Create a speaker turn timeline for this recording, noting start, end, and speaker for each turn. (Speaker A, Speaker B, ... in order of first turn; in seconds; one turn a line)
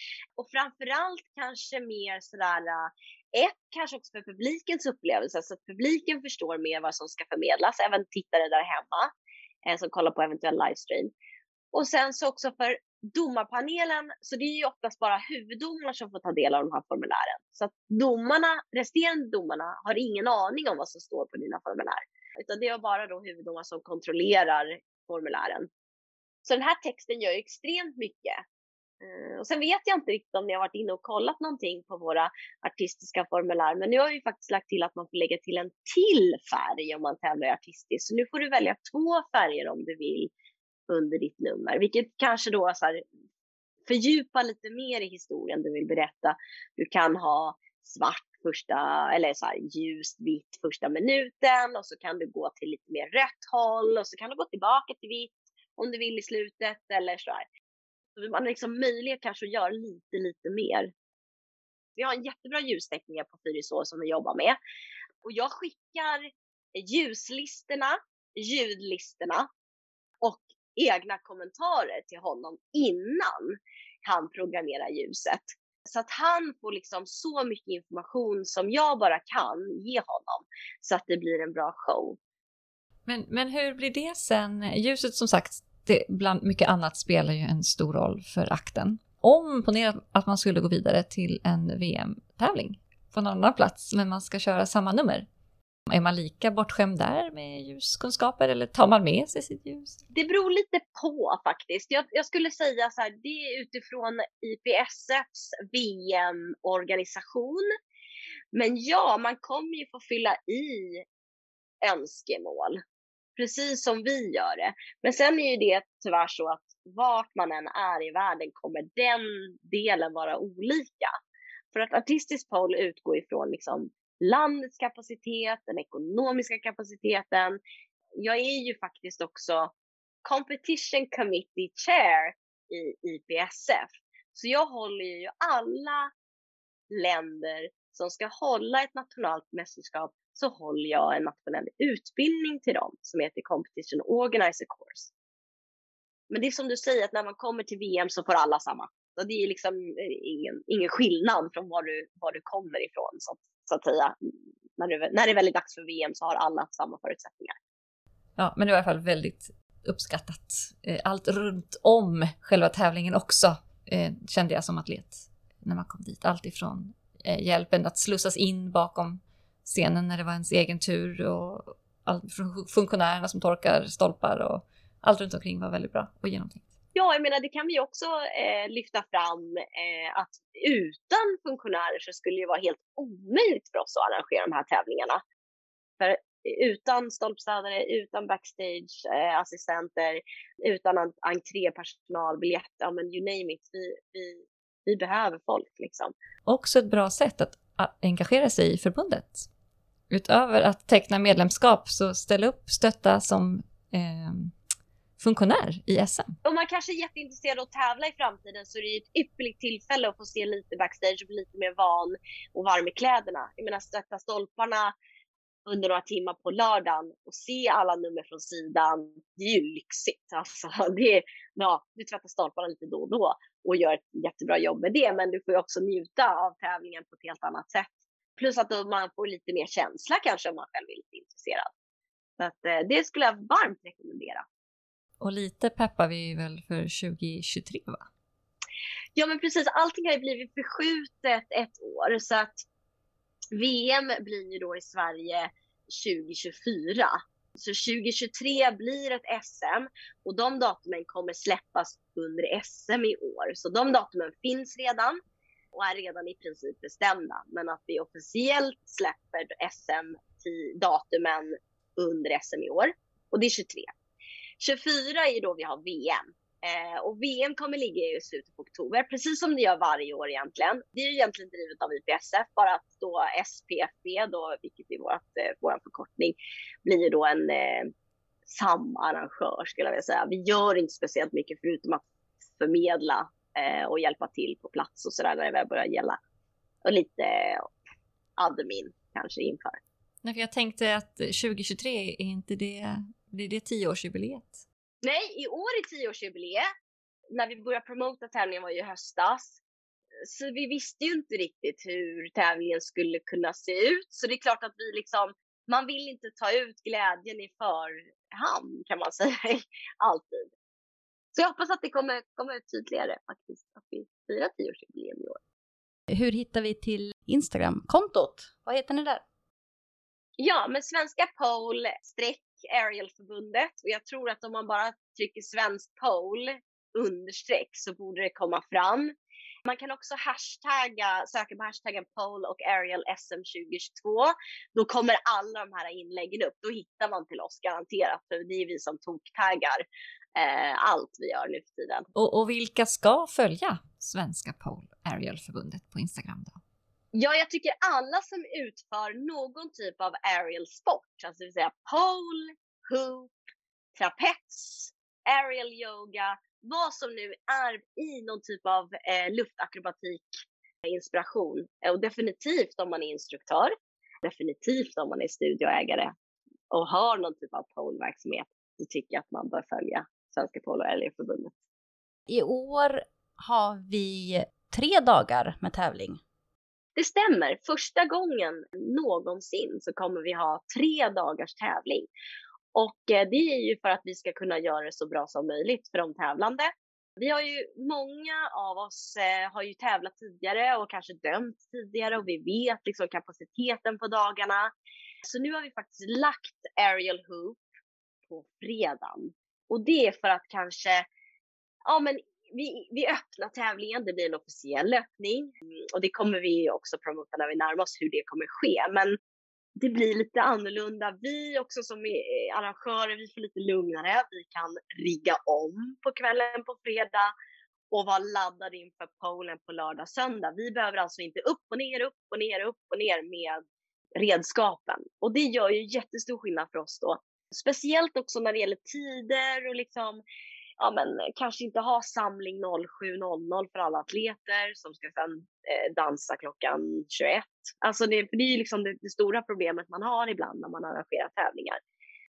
Speaker A: 0.4-9.1
Speaker A: 9.7-11.1
Speaker A: 11.7-25.7
Speaker A: 26.4-28.4
Speaker A: 29.0-40.3
Speaker A: 40.9-43.0
Speaker A: 43.9-57.5
Speaker A: 58.1-60.9
Speaker A: 62.0-64.6
Speaker A: 65.2-69.5
Speaker A: 70.2-82.2
Speaker B: 83.0-95.2
Speaker B: 95.9-100.0
Speaker A: 100.1-107.7
Speaker A: 108.5-111.0
Speaker A: 111.8-112.8
Speaker A: 113.4-121.1
Speaker A: 121.7-127.6
Speaker A: 128.2-129.7
Speaker A: 130.2-136.1
Speaker A: 136.9-145.1
Speaker A: 146.3-157.5
Speaker B: 158.4-176.7
Speaker A: 176.9-185.2
Speaker A: 186.0-196.1
Speaker B: 196.4-199.5
Speaker B: 200.1-204.5
Speaker B: 205.2-206.3
Speaker A: 206.4-214.9
Speaker A: 215.7-231.7
Speaker A: 232.4-234.4
Speaker B: 235.2-238.0
Speaker A: 239.2-242.6
Speaker A: 243.5-255.2
Speaker A: 255.7-263.9
Speaker A: 264.6-277.9
Speaker A: 278.4-282.0
Speaker A: 282.6-286.2
Speaker A: 286.8-287.7
Speaker A: 288.4-289.8
Speaker B: 290.2-294.6
Speaker A: 295.0-296.7
Speaker A: 297.3-299.6
Speaker A: 300.2-310.5
Speaker A: 311.3-315.4
Speaker C: 316.1-319.2
Speaker A: 320.4-329.1
Speaker A: 329.6-342.1
Speaker B: 342.1-346.6
Speaker A: 347.1-353.3
Speaker A: 353.9-366.1
Speaker A: 366.7-371.5
Speaker C: 372.3-376.2
Speaker A: 376.9-382.1
Speaker A: 382.7-394.7
Speaker A: 395.2-397.6
Speaker A: 398.3-401.1
Speaker A: 401.9-409.2
Speaker A: 409.8-417.3
Speaker A: 417.9-423.6
Speaker A: 424.1-430.2
Speaker A: 430.8-441.8